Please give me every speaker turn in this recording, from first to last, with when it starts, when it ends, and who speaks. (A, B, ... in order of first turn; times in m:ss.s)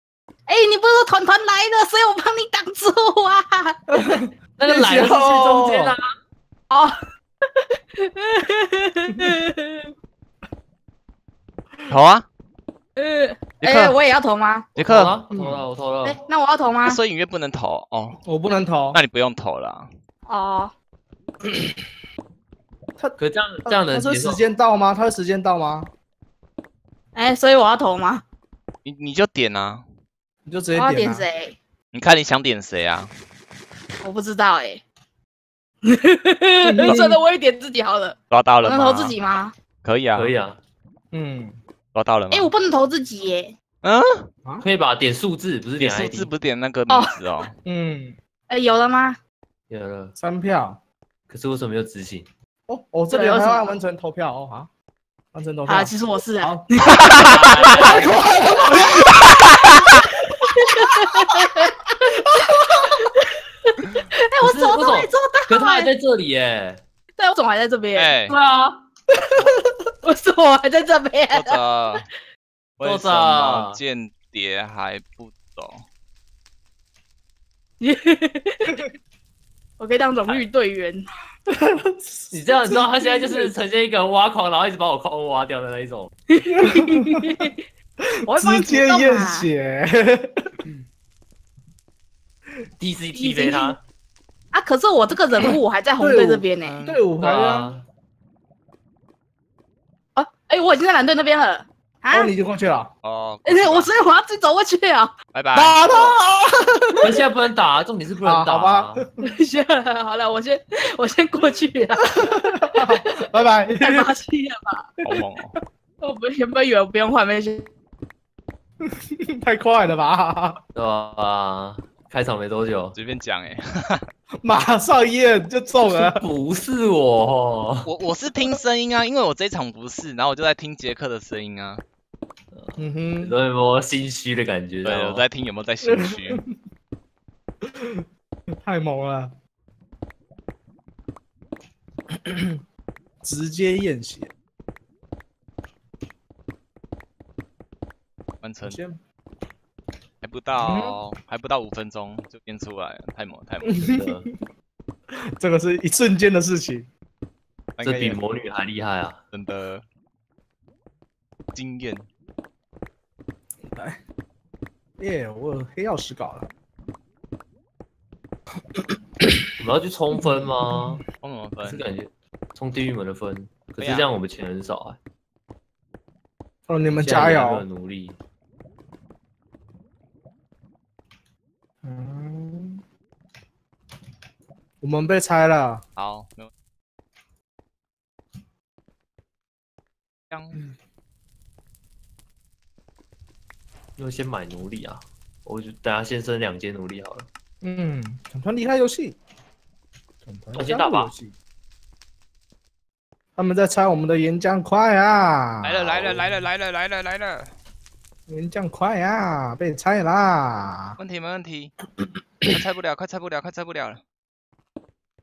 0:00.5-0:04.3 A
0:03.9-0:06.0 B
0:04.6-0:06.0 C
0:08.0-0:09.9 A
0:11.9-0:12.3 D
0:13.0-0:14.7 A
0:13.6-0:14.0 D
0:14.8-0:16.2 C
0:14.8-0:15.2 D
0:15.3-0:15.6 B
0:16.0-0:17.0 A
0:16.8-0:18.2 D
0:18.2-0:19.0 B
0:18.9-0:19.9 D
0:20.3-0:20.7 A
0:23.0-0:25.9 B
0:23.2-0:24.4 C
0:27.2-0:28.2 A
0:28.8-0:29.8 D
0:30.4-0:31.3 B
0:30.7-0:31.6 A
0:31.9-0:33.1 D
0:34.0-0:34.8 A
0:35.8-0:39.5 A
0:36.6-0:37.2 B
0:38.3-0:39.2 D
0:39.8-0:40.4 D
0:40.1-0:40.6 C
0:41.1-0:41.6 B
0:41.9-0:42.5 D
0:42.3-0:43.5 A
0:43.8-0:44.3 D
0:44.6-0:46.3 C
0:45.8-0:47.6 D
0:46.9-0:47.2 A
0:47.6-0:48.2 B
0:48.5-0:49.2 A
0:49.7-0:50.2 C
0:50.2-0:50.8 B
0:51.3-0:52.3 C
0:52.7-0:54.7 B
0:53.1-0:53.7 A
0:55.3-0:56.6 B
0:55.7-0:58.8 A
0:57.1-0:58.6 C
1:00.4-1:06.0 A
1:04.4-1:06.8 C
1:07.2-1:08.2 A
1:08.0-1:08.4 D
1:08.3-1:08.8 C
1:10.0-1:12.0 A
1:11.3-1:12.0 D
1:12.8-1:15.8 D
1:12.8-1:13.8 C
1:17.8-1:18.8 A
1:19.8-1:21.0 A
1:21.5-1:23.5 B
1:22.3-1:26.1 C
1:26.3-1:27.6 A
1:26.5-1:27.3 B
1:28.3-1:29.5 A
1:28.3-1:30.5 B
1:32.8-1:33.8 C
1:33.1-1:33.8 A
1:34.5-1:36.8 A
1:36.0-1:37.8 B
1:36.6-1:37.1 D
1:37.2-1:37.8 C
1:40.2-1:42.3 A
1:42.1-1:42.9 B
1:43.0-1:43.9 D
1:43.4-1:45.1 A
1:45.3-1:45.8 D
1:45.5-1:47.1 B
1:47.0-1:49.1 C
1:48.2-1:49.1 B
1:49.2-1:53.1 A
1:52.1-1:54.2 B
1:53.8-1:54.9 A
1:55.0-1:55.6 D
1:56.0-1:57.7 A
1:58.8-2:00.6 B
2:00.7-2:03.0 C
2:02.9-2:04.0 D
2:04.4-2:06.2 B
2:05.9-2:07.9 C
2:07.8-2:11.8 D
2:12.5-2:15.2 C
2:12.8-2:13.4 B
2:14.8-2:16.4 D
2:15.8-2:16.6 B
2:17.6-2:18.0 B
2:18.6-2:19.3 B
2:22.2-2:22.6 B
2:23.2-2:24.3 B
2:28.4-2:28.8 D
2:28.6-2:29.0 B
2:30.2-2:33.8 D
2:30.6-2:31.0 B
2:33.6-2:34.4 B
2:33.8-2:34.3 C
2:35.3-2:36.9 B
2:37.8-2:38.2 D
2:37.8-2:39.2 C
2:39.3-2:39.8 D
2:41.5-2:42.1 D
2:43.7-2:44.0 B
2:45.0-2:46.5 B
2:49.2-2:49.5 B
2:49.6-2:51.0 C
2:50.2-2:51.0 B
2:51.2-2:51.8 D
2:51.6-2:55.0 C
2:53.8-2:54.1 D
2:56.7-2:57.6 B
2:56.9-2:58.2 C
3:01.8-3:02.8 B
3:04.8-3:05.8 B
3:06.0-3:06.5 D
3:10.3-3:10.6 D
3:14.0-3:17.3 C
3:17.6-3:19.2 B
3:20.2-3:21.3 B
3:20.6-3:21.1 C
3:23.4-3:26.2 B
3:25.6-3:27.5 D
3:28.3-3:31.0 B
3:31.0-3:31.8 D
3:32.4-3:34.0 D